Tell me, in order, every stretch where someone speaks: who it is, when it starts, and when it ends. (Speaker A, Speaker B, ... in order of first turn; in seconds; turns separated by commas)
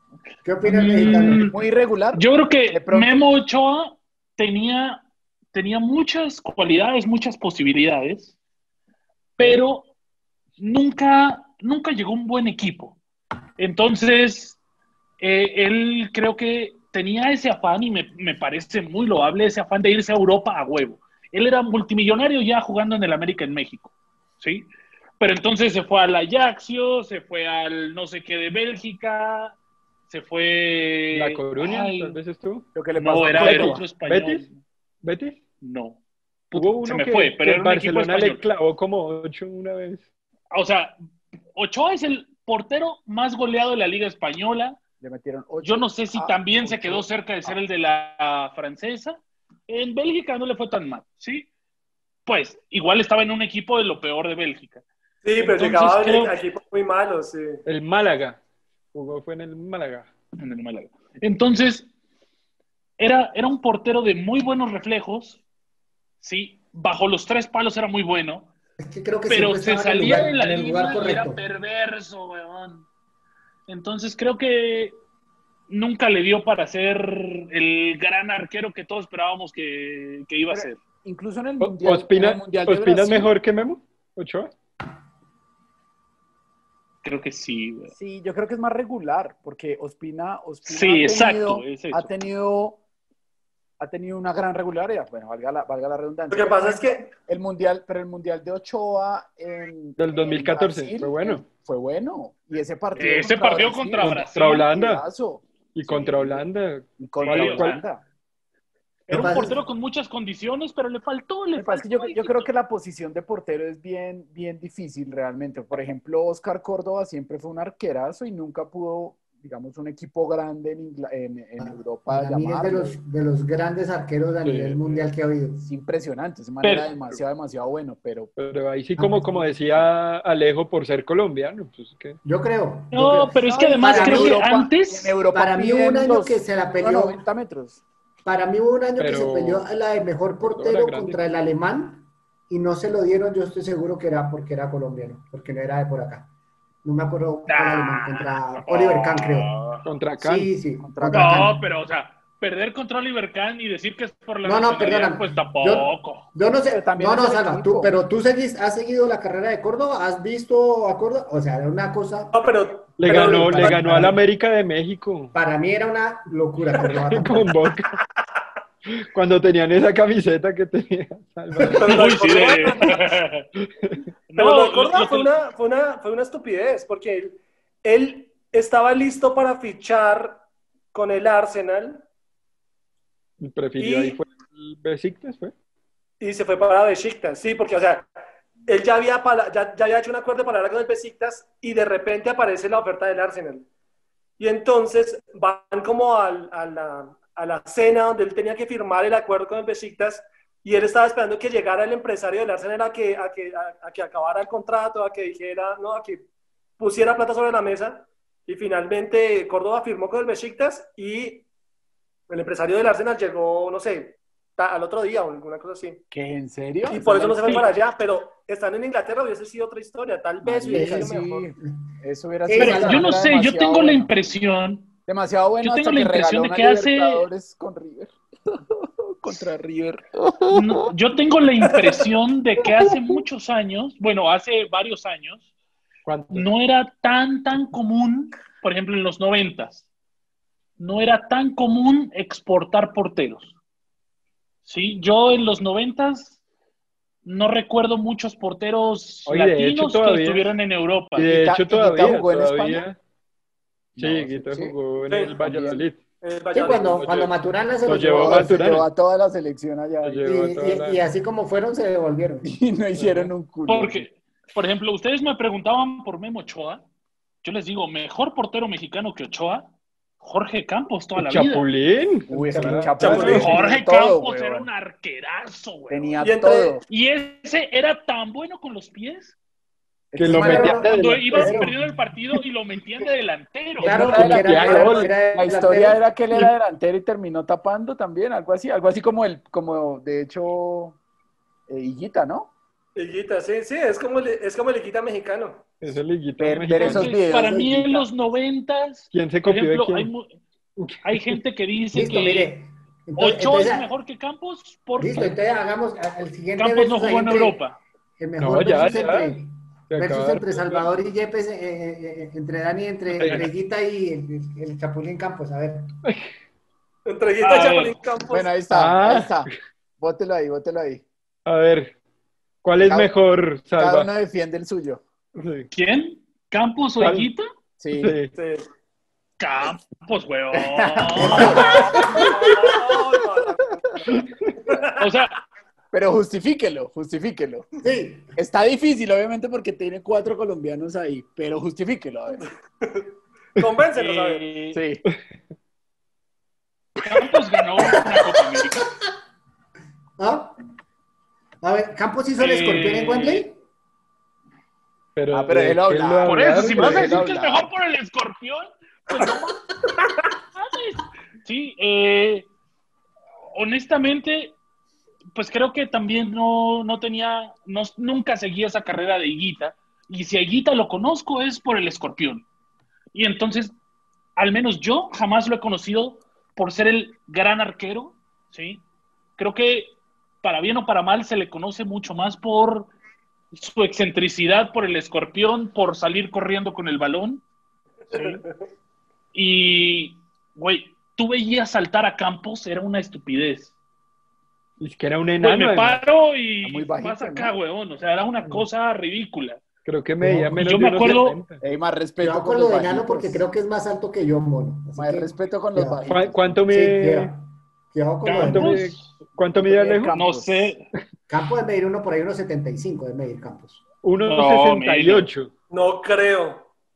Speaker A: 0.4-1.5, Speaker B: 0.6-1.5, Speaker C: 1.0-3.1, Speaker B: 2.1-8.3, Speaker B: 9.4-9.9, Speaker B: 10.6-13.0, Speaker B: 13.6-14.6, Speaker B: 15.2-24.7, Speaker B: 25.2-29.6, Speaker B: 30.1-32.2, Speaker D: 31.1-32.7, Speaker C: 32.7-33.9, Speaker B: 33.0-34.6, Speaker D: 33.3-34.5, Speaker D: 35.0-35.4, Speaker B: 35.6-36.0, Speaker B: 36.5-38.4, Speaker D: 36.5-40.0, Speaker B: 40.5-41.0, Speaker B: 41.5-44.8, Speaker C: 45.0-47.6, Speaker B: 45.6-51.5, Speaker B: 52.2-54.8, Speaker E: 55.2-57.6, Speaker B: 55.4-56.3, Speaker D: 57.6-58.4, Speaker D: 58.9-60.1, Speaker B: 60.4-61.9, Speaker B: 63.0-65.4, Speaker B: 66.2-68.5, Speaker A: 68.8-71.4, Speaker B: 69.3-72.8, Speaker B: 73.7-75.0, Speaker B: 75.7-80.8, Speaker C: 80.5-83.3, Speaker D: 81.6-84.5, Speaker B: 87.0-87.9, Speaker C: 87.9-92.8, Speaker B: 90.6-92.1, Speaker C: 93.8-106.4, Speaker E: 96.3-97.1, Speaker D: 100.0-101.4, Speaker B: 102.9-104.6, Speaker D: 104.0-105.0, Speaker D: 105.7-107.8, Speaker C: 107.0-108.0, Speaker B: 107.2-107.8, Speaker B: 109.1-112.5, Speaker A: 109.1-109.6, Speaker C: 111.5-123.0, Speaker A: 121.6-125.7, Speaker D: 124.4-125.0, Speaker C: 125.6-128.3, Speaker B: 126.6-126.9, Speaker D: 128.3-132.2, Speaker A: 129.0-129.8, Speaker A: 132.2-134.4, Speaker B: 132.9-135.1, Speaker C: 133.4-137.8, Speaker A: 135.3-137.2, Speaker A: 138.2-146.3, Speaker D: 139.0-139.7, Speaker D: 140.4-141.2, Speaker A: 146.8-149.5, Speaker B: 147.5-149.8, Speaker D: 149.8-150.5, Speaker A: 150.2-151.6, Speaker C: 150.8-151.5, Speaker B: 151.1-156.3, Speaker A: 154.4-162.3, Speaker C: 156.7-157.9, Speaker E: 162.3-163.7, Speaker D: 163.0-165.3, Speaker A: 163.2-164.2, Speaker C: 163.5-164.1, Speaker A: 165.3-167.5, Speaker D: 166.9-168.0, Speaker D: 168.9-172.2, Speaker A: 171.6-171.9, Speaker E: 171.7-173.1, Speaker B: 171.9-173.5, Speaker B: 174.3-175.3, Speaker E: 174.4-182.0, Speaker D: 183.4-185.5, Speaker E: 183.8-184.2, Speaker E: 186.2-188.1, Speaker E: 188.7-193.7, Speaker E: 194.4-206.2, Speaker E: 206.8-211.4, Speaker E: 212.3-216.0, Speaker C: 216.1-217.7, Speaker E: 216.9-221.5, Speaker C: 220.4-224.1, Speaker A: 220.7-221.1, Speaker A: 222.4-223.1, Speaker B: 222.6-224.9, Speaker C: 225.1-230.8, Speaker B: 225.6-227.3, Speaker B: 230.5-235.5, Speaker D: 236.1-236.5, Speaker B: 236.3-239.8, Speaker B: 240.8-243.5, Speaker B: 244.6-246.4, Speaker B: 247.2-251.3, Speaker D: 249.2-250.5, Speaker D: 251.1-253.0, Speaker C: 251.2-252.8, Speaker C: 253.9-254.8, Speaker D: 254.0-256.0, Speaker C: 255.3-255.8, Speaker E: 256.2-257.3, Speaker A: 256.5-258.6, Speaker D: 257.8-258.9, Speaker C: 258.1-260.3, Speaker D: 260.0-261.0, Speaker A: 260.2-262.5, Speaker C: 262.4-264.0, Speaker D: 263.0-263.3, Speaker B: 263.7-266.8, Speaker B: 267.4-269.7, Speaker B: 270.2-271.7, Speaker D: 271.2-273.6, Speaker C: 272.3-274.7, Speaker A: 272.3-273.2, Speaker E: 273.0-273.4, Speaker B: 273.1-276.2, Speaker C: 275.9-276.8, Speaker E: 276.2-276.8, Speaker B: 276.9-279.4, Speaker C: 280.1-280.8, Speaker D: 280.2-281.7, Speaker A: 280.2-281.7, Speaker B: 280.7-284.3, Speaker C: 283.8-291.0, Speaker A: 283.8-286.0, Speaker D: 284.1-285.1, Speaker C: 291.7-292.5, Speaker E: 292.9-295.6, Speaker D: 295.8-297.1, Speaker C: 296.4-298.1, Speaker B: 296.8-300.4, Speaker D: 299.1-300.1, Speaker D: 300.8-301.4, Speaker B: 301.0-302.5, Speaker A: 301.9-303.9, Speaker B: 303.2-305.4, Speaker A: 305.0-307.6, Speaker B: 306.6-307.8, Speaker A: 308.2-315.9, Speaker D: 308.4-309.4, Speaker D: 309.9-310.8, Speaker D: 313.1-313.5, Speaker E: 317.0-318.5, Speaker B: 317.4-317.9, Speaker C: 318.3-321.0, Speaker D: 318.7-319.4, Speaker D: 321.4-321.9, Speaker D: 322.6-324.1, Speaker C: 322.8-323.1, Speaker C: 323.7-325.0, Speaker D: 325.4-325.7, Speaker B: 325.7-327.5, Speaker D: 327.0-327.3, Speaker C: 327.8-328.2, Speaker D: 327.9-328.3, Speaker E: 328.3-328.6, Speaker B: 329.4-332.1, Speaker C: 330.7-331.6, Speaker A: 331.2-332.1, Speaker E: 331.5-335.0, Speaker B: 335.0-335.4, Speaker C: 335.9-337.7, Speaker A: 337.8-338.3, Speaker C: 338.4-342.4, Speaker E: 342.8-344.5, Speaker B: 343.9-344.8, Speaker C: 344.7-345.0, Speaker B: 347.0-348.9, Speaker A: 350.2-350.5, Speaker A: 351.6-353.6, Speaker B: 352.4-353.5, Speaker D: 355.1-357.2, Speaker C: 355.3-357.7, Speaker B: 356.2-359.6, Speaker B: 360.6-362.5, Speaker B: 363.5-364.6, Speaker B: 365.3-372.4, Speaker B: 373.1-373.7, Speaker B: 374.4-378.8, Speaker B: 379.4-382.9, Speaker B: 383.5-387.4, Speaker B: 388.1-388.4, Speaker E: 388.1-388.5, Speaker B: 389.3-393.7, Speaker D: 394.8-396.0, Speaker B: 395.4-399.6, Speaker C: 396.6-397.5, Speaker D: 399.8-401.6, Speaker C: 400.2-400.5, Speaker B: 400.6-401.4, Speaker C: 401.6-403.4, Speaker A: 402.2-406.0, Speaker C: 404.9-406.5, Speaker D: 406.1-407.3, Speaker A: 406.7-408.8, Speaker B: 408.2-409.1, Speaker D: 408.4-410.1, Speaker C: 409.5-410.7, Speaker B: 410.1-410.8, Speaker A: 411.3-413.8, Speaker D: 414.0-415.5, Speaker B: 414.2-415.3, Speaker E: 415.7-416.7